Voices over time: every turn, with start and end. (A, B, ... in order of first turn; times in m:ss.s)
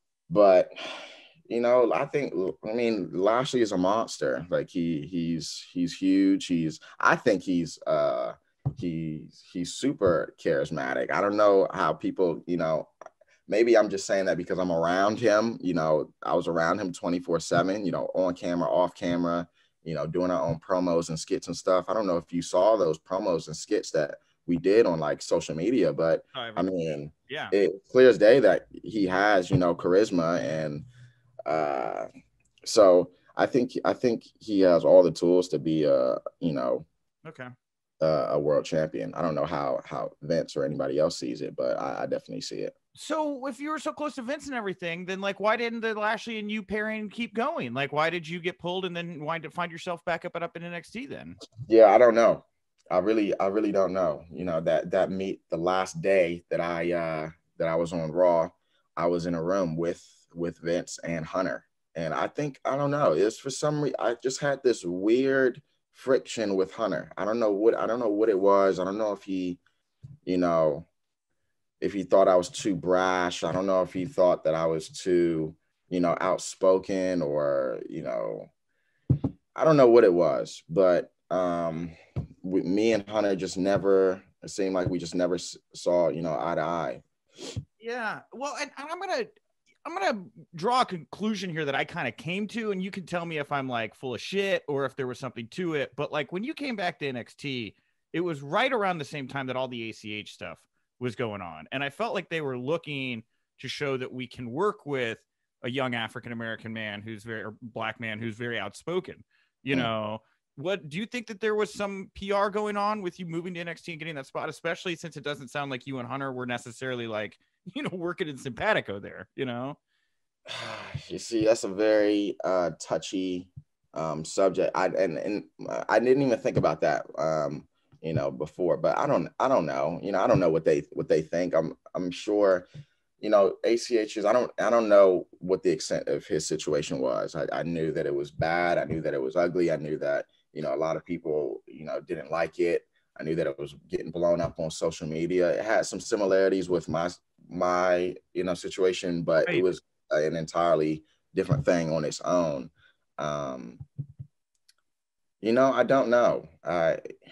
0:00.3-0:12.9 A
0:13.5-0:30.8 A
0:26.3-0:26.7 B
0:27.3-0:27.5 B
0:31.5-0:32.1 A
0:32.6-0:36.9 A
0:37.2-0:37.5 B
0:38.0-0:42.8 A
0:43.0-0:51.4 B
0:51.7-1:09.6 A
1:10.3-1:10.9 A
1:11.8-1:18.5 A
1:19.6-1:27.0 A
1:27.8-1:29.3 B
1:29.9-1:59.8 B
2:00.5-2:12.7 A
2:13.2-2:33.8 A
2:35.4-2:37.0 A